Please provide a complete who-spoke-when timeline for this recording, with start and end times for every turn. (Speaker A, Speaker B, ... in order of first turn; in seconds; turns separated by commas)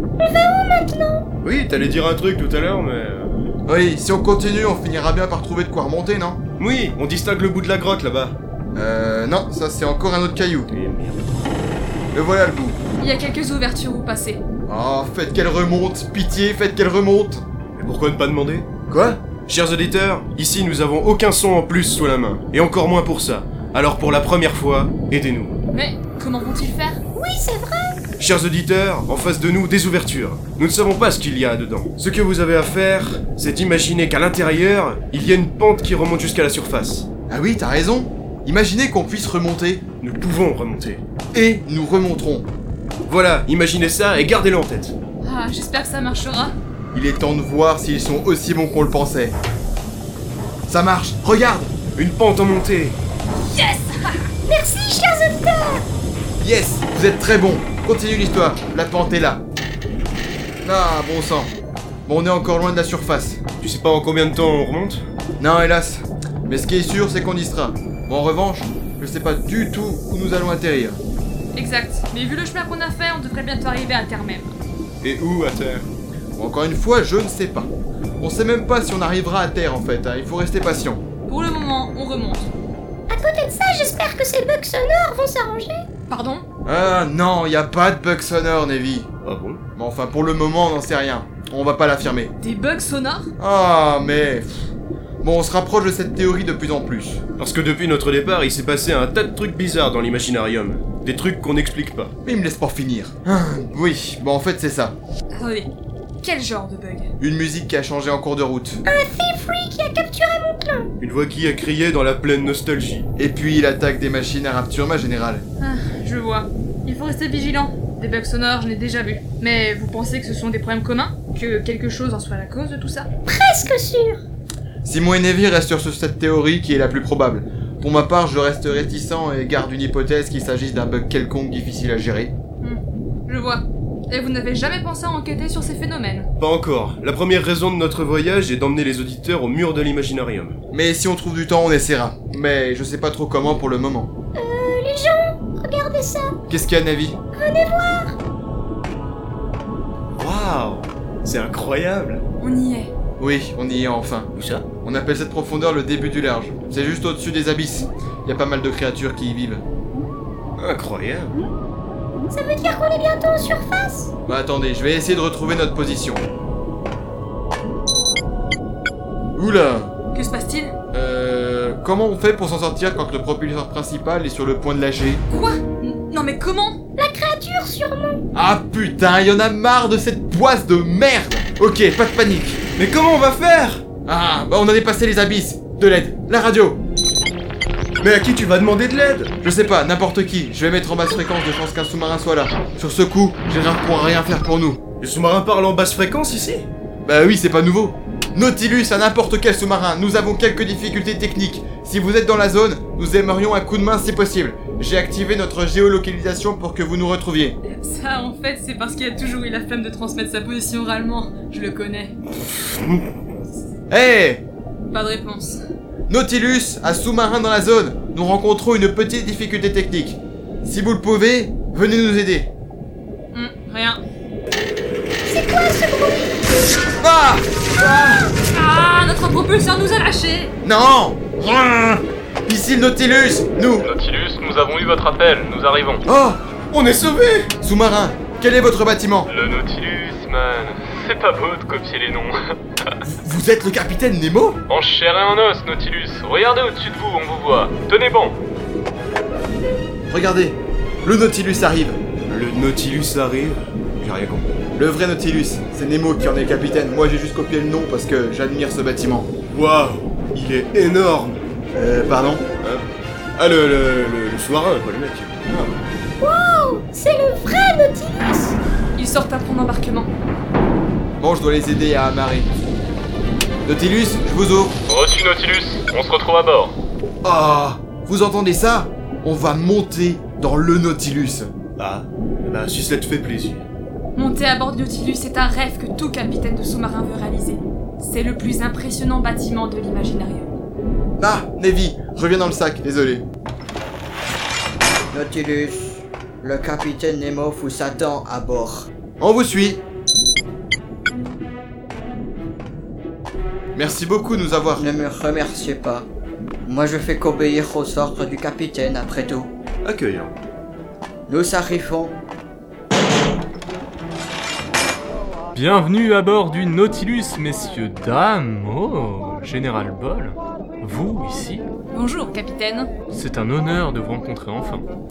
Speaker A: 0.2-1.2, Speaker B: 1.4-3.3, Speaker C: 3.7-6.4, Speaker B: 6.6-8.4, Speaker C: 8.8-10.7, Speaker B: 10.7-11.2, Speaker C: 12.1-12.8, Speaker D: 13.0-14.4, Speaker C: 14.7-17.4, Speaker B: 17.8-25.6, Speaker C: 18.9-19.2, Speaker D: 25.7-27.0, Speaker A: 27.1-28.0, Speaker B: 28.2-37.1, Speaker C: 37.3-39.8, Speaker B: 40.0-41.0, Speaker C: 41.3-42.5, Speaker B: 43.1-45.0, Speaker D: 45.2-46.5, Speaker C: 46.9-49.4, Speaker C: 50.7-51.8, Speaker B: 52.0-53.0, Speaker D: 53.4-54.2, Speaker A: 54.5-55.8, Speaker C: 56.4-59.4, Speaker C: 60.6-61.5, Speaker C: 62.1-63.4, Speaker B: 63.6-65.0, Speaker C: 65.4-71.0, Speaker D: 71.5-74.5, Speaker B: 75.0-75.9, Speaker C: 76.4-81.0, Speaker D: 81.3-82.5, Speaker A: 83.1-85.8, Speaker D: 86.1-86.4, Speaker C: 86.7-89.1, Speaker B: 89.2-89.6, Speaker C: 89.8-92.3, Speaker D: 92.4-93.3, Speaker C: 93.4-94.7, Speaker C: 95.2-97.2, Speaker B: 97.4-102.1, Speaker C: 102.2-105.0, Speaker D: 105.3-105.7, Speaker D: 106.2-107.1, Speaker C: 107.2-108.8, Speaker A: 108.8-110.9, Speaker B: 111.0-113.1, Speaker C: 113.2-115.4, Speaker D: 115.6-123.1, Speaker A: 123.3-124.2, Speaker C: 124.8-132.3, Speaker D: 132.6-136.3, Speaker B: 136.4-140.6, Speaker C: 140.7-144.1, Speaker A: 144.3-146.4, Speaker C: 146.5-147.2, Speaker A: 147.3-148.1, Speaker B: 150.2-152.2, Speaker D: 152.4-152.9, Speaker C: 153.2-154.3, Speaker B: 154.3-154.7, Speaker C: 154.8-159.6, Speaker B: 160.6-161.4, Speaker A: 162.3-164.1, Speaker C: 164.3-166.3, Speaker C: 169.4-169.9, Speaker D: 170.1-170.7, Speaker C: 170.9-175.2, Speaker D: 175.3-176.8, Speaker A: 177.0-178.2, Speaker C: 178.3-182.6, Speaker B: 182.8-183.8, Speaker C: 184.1-186.8, Speaker B: 188.0-189.3, Speaker C: 189.4-194.8, Speaker B: 195.0-196.7, Speaker C: 197.1-207.6, Speaker D: 207.7-212.1, Speaker B: 212.4-213.2, Speaker C: 213.9-214.4, Speaker D: 214.9-215.6, Speaker C: 216.1-222.5, Speaker D: 223.3-224.0, Speaker A: 225.3-226.8, Speaker C: 227.0-228.3, Speaker D: 228.5-230.5, Speaker C: 230.6-233.9, Speaker E: 233.8-236.0, Speaker C: 236.1-236.4, Speaker B: 236.7-237.5, Speaker C: 237.6-239.3, Speaker E: 239.3-242.6, Speaker C: 243.1-244.6, Speaker E: 244.7-248.4, Speaker C: 250.1-252.0, Speaker B: 252.3-254.5, Speaker C: 254.8-259.3, Speaker B: 259.5-261.4, Speaker C: 261.7-262.4, Speaker B: 263.4-265.4, Speaker C: 265.5-265.7, Speaker A: 266.2-268.6, Speaker D: 269.0-270.1, Speaker C: 271.2-272.5, Speaker C: 273.7-274.8, Speaker E: 274.9-276.8, Speaker C: 277.2-281.5, Speaker B: 281.8-283.7, Speaker D: 284.2-290.5, Speaker C: 291.2-293.3, Speaker A: 295.1-298.9, Speaker F: 297.1-298.5, Speaker C: 299.2-299.8, Speaker C: 303.7-304.9, Speaker F: 304.8-305.8, Speaker A: 305.2-306.1, Speaker F: 306.7-308.4, Speaker A: 306.9-309.1, Speaker F: 309.1-309.5, Speaker B: 309.9-310.3, Speaker F: 311.3-312.0, Speaker A: 311.6-312.1, Speaker E: 315.5-321.6, Speaker D: 321.9-322.9, Speaker E: 323.1-324.9